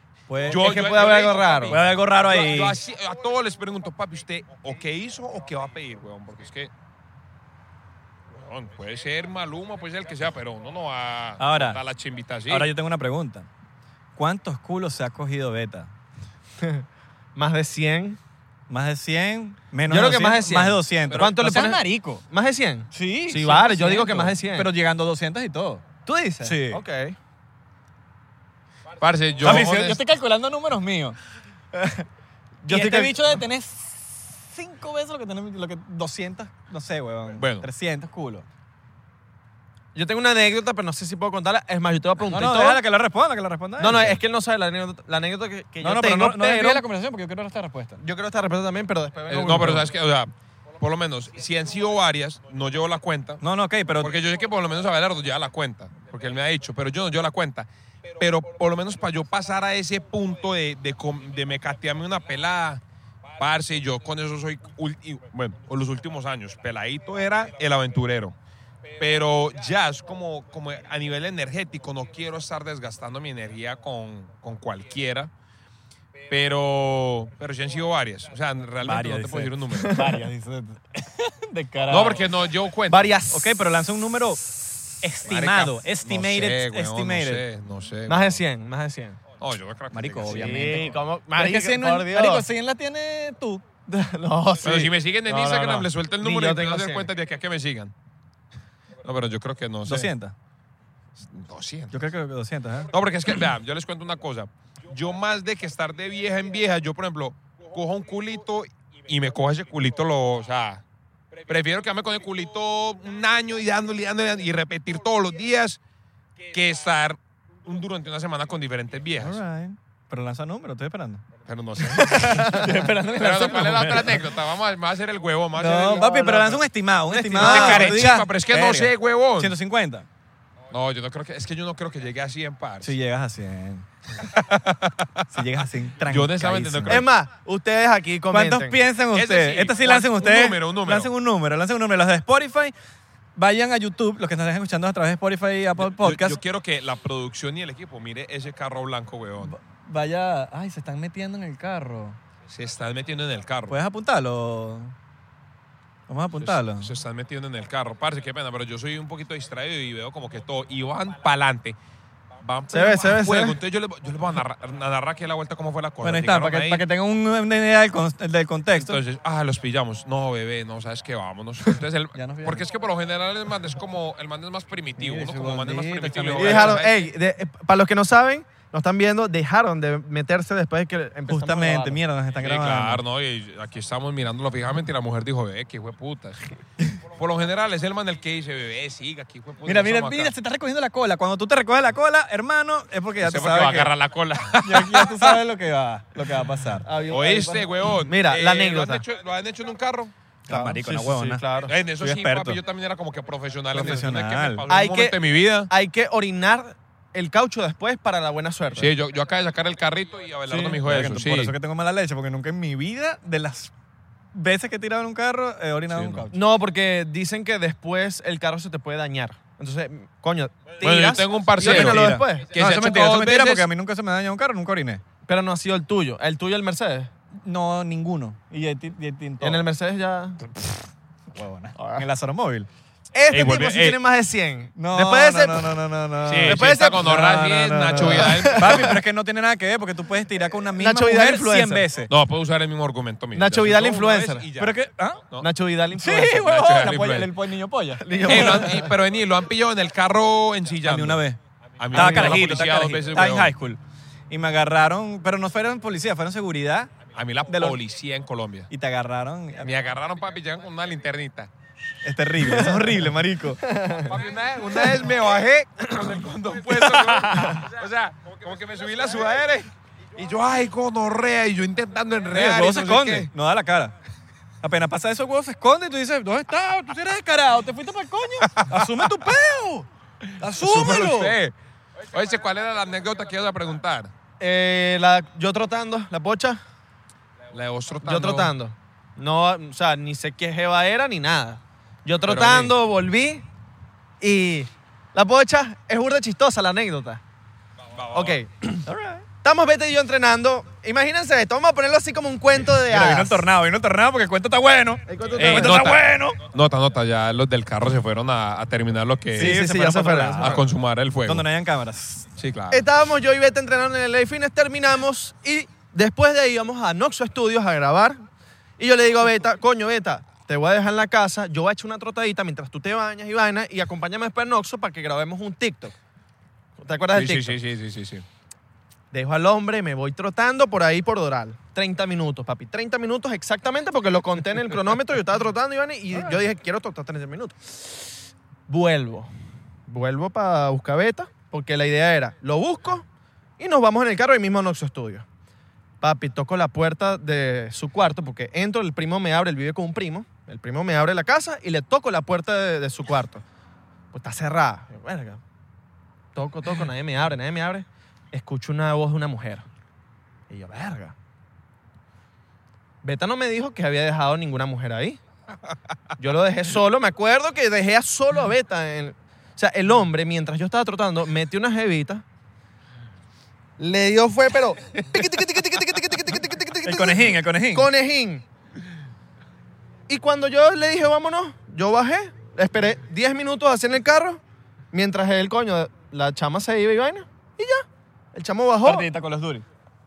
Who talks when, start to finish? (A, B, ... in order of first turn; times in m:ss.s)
0:00.3-0:00.6 A
0:00.5-0:06.7 B
0:00.5-0:01.8 C
0:01.7-0:02.8 A
0:08.3-0:12.7 B
0:11.4-0:11.8 A
0:12.5-0:13.5 A
0:14.2-0:15.9 A
0:16.6-0:18.2 C
0:18.7-0:22.2 A
0:19.9-0:24.7 C
0:22.9-0:25.8 A
0:26.0-0:27.2 C
0:26.4-0:26.8 A
0:29.0-0:30.0 B
0:29.4-0:31.2 A
0:32.6-0:33.4 C
0:32.7-0:38.4 A
0:37.4-0:37.6 B
0:39.9-0:42.8 C
0:42.3-0:44.2 A
0:43.8-0:46.8 C
0:45.8-0:48.0 A
0:48.0-0:49.9 C
0:49.3-0:53.4 B
0:53.4-0:54.1 A
0:54.0-1:02.8 B
1:03.4-1:08.4 B
1:09.0-1:15.3 B
1:16.3-1:20.0 B
1:18.8-1:22.2 A
1:21.9-1:23.1 B
1:22.9-1:23.5 C
1:23.3-1:27.4 A
1:25.2-1:28.4 B
1:28.1-1:29.2 C
1:29.4-1:30.8 B
1:29.9-1:33.6 A
1:30.3-1:32.5 C
1:33.9-1:37.1 C
1:34.6-1:37.9 B
1:39.0-1:40.1 B
1:39.8-1:40.3 A
1:41.2-1:42.0 B
1:41.9-1:42.9 A
1:42.9-1:50.8 B
1:51.5-1:55.8 B
1:56.5-1:59.4 B
1:59.2-2:01.2 A
2:01.4-2:06.4 B
2:01.8-2:04.3 A
2:02.3-2:02.7 C
2:05.6-2:10.1 A
2:06.0-2:06.5 C
2:07.1-2:08.0 C
2:07.4-2:09.5 B
2:10.7-2:12.9 B
2:12.8-2:13.9 A
2:14.2-2:15.4 B
2:15.3-2:17.0 A
2:16.0-2:17.1 B
2:16.9-2:18.8 C
2:18.3-2:22.7 A
2:19.1-2:21.1 B
2:23.4-2:26.4 A
2:25.8-2:29.5 B
2:29.4-2:32.2 A
2:32.5-2:33.8 B
2:33.7-2:34.9 A
2:36.1-2:36.9 A
2:36.4-2:41.8 B
2:42.4-2:46.8 B
2:42.7-2:43.6 C
2:46.0-2:49.0 A
2:48.7-2:57.0 B
2:52.1-2:52.6 A
2:55.0-2:56.8 A
2:56.4-3:02.0 C
3:01.3-3:03.0 A
3:02.4-3:06.5 B
3:07.1-3:10.3 B
3:09.6-3:13.9 A
3:13.2-3:15.4 B
3:14.6-3:16.9 A
3:16.8-3:19.0 C
3:17.1-3:20.1 B
3:20.5-3:21.4 A
3:20.5-3:21.7 C
3:21.7-3:25.7 B
3:22.0-3:22.6 A
3:23.7-3:24.6 A
3:24.7-3:28.9 C
3:28.8-3:31.5 B
3:30.5-3:30.8 C
3:30.8-3:33.7 A
3:34.3-3:36.4 A
3:35.9-3:36.2 B
3:36.3-3:42.5 C
3:40.8-3:43.7 B
3:41.6-3:45.0 A
3:45.2-3:47.1 C
3:47.4-3:49.6 A
3:49.4-3:50.4 C
3:51.3-3:52.7 A
3:51.8-3:52.0 C
3:53.1-3:55.8 C
3:53.3-3:54.0 B
3:54.8-4:02.1 A
3:56.3-3:59.0 B
3:56.4-3:57.2 C
3:58.0-3:59.0 C
4:00.8-4:01.9 C
4:02.1-4:05.5 B
4:03.3-4:04.5 C
4:04.6-4:05.2 A
4:05.4-4:06.5 C
4:05.9-4:08.7 A
4:06.3-4:07.3 B
4:08.0-4:09.0 C
4:08.2-4:11.2 B
4:10.8-4:11.4 A
4:11.8-4:13.5 B
4:11.9-4:12.6 C
4:11.9-4:16.9 A
4:17.1-4:18.7 B
4:17.5-4:17.8 A
4:18.7-4:19.7 A
4:19.6-4:21.5 B
4:22.0-4:23.7 A
4:22.5-4:22.9 C
4:23.6-4:24.2 C
4:24.0-4:33.3 B
4:26.7-4:27.6 A
4:32.3-4:33.9 A
4:34.6-4:41.4 A
4:38.6-4:38.9 B
4:40.5-4:41.5 B
4:42.1-4:44.1 B
4:44.4-4:46.6 C
4:47.5-4:48.5 B
4:48.0-4:53.4 C
4:52.2-4:52.7 B
4:54.2-4:57.2 C
4:57.9-4:58.4 B
4:58.1-4:58.8 C
4:58.8-4:59.2 A
4:59.4-5:03.5 C
5:02.9-5:06.4 A
5:05.1-5:05.9 C
5:05.4-5:09.5 B
5:09.3-5:10.6 A
5:09.3-5:10.6 C
5:10.4-5:11.4 B
5:11.2-5:12.2 A
5:12.4-5:12.8 B
5:12.7-5:18.2 C
5:18.8-5:26.0 C
5:26.8-5:27.6 C
5:27.1-5:28.2 B
5:29.1-5:39.3 C
5:39.9-5:43.0 C
5:43.6-5:45.2 C
5:46.0-5:53.4 C
5:54.1-5:55.4 C
5:56.3-5:59.6 C
6:00.5-6:01.1 C
6:03.0-6:05.2 C
6:06.2-6:12.2 C
6:13.8-6:18.4 C
6:16.8-6:17.9 A
6:20.1-6:24.4 C
6:24.9-6:29.1 C
6:28.8-6:29.6 A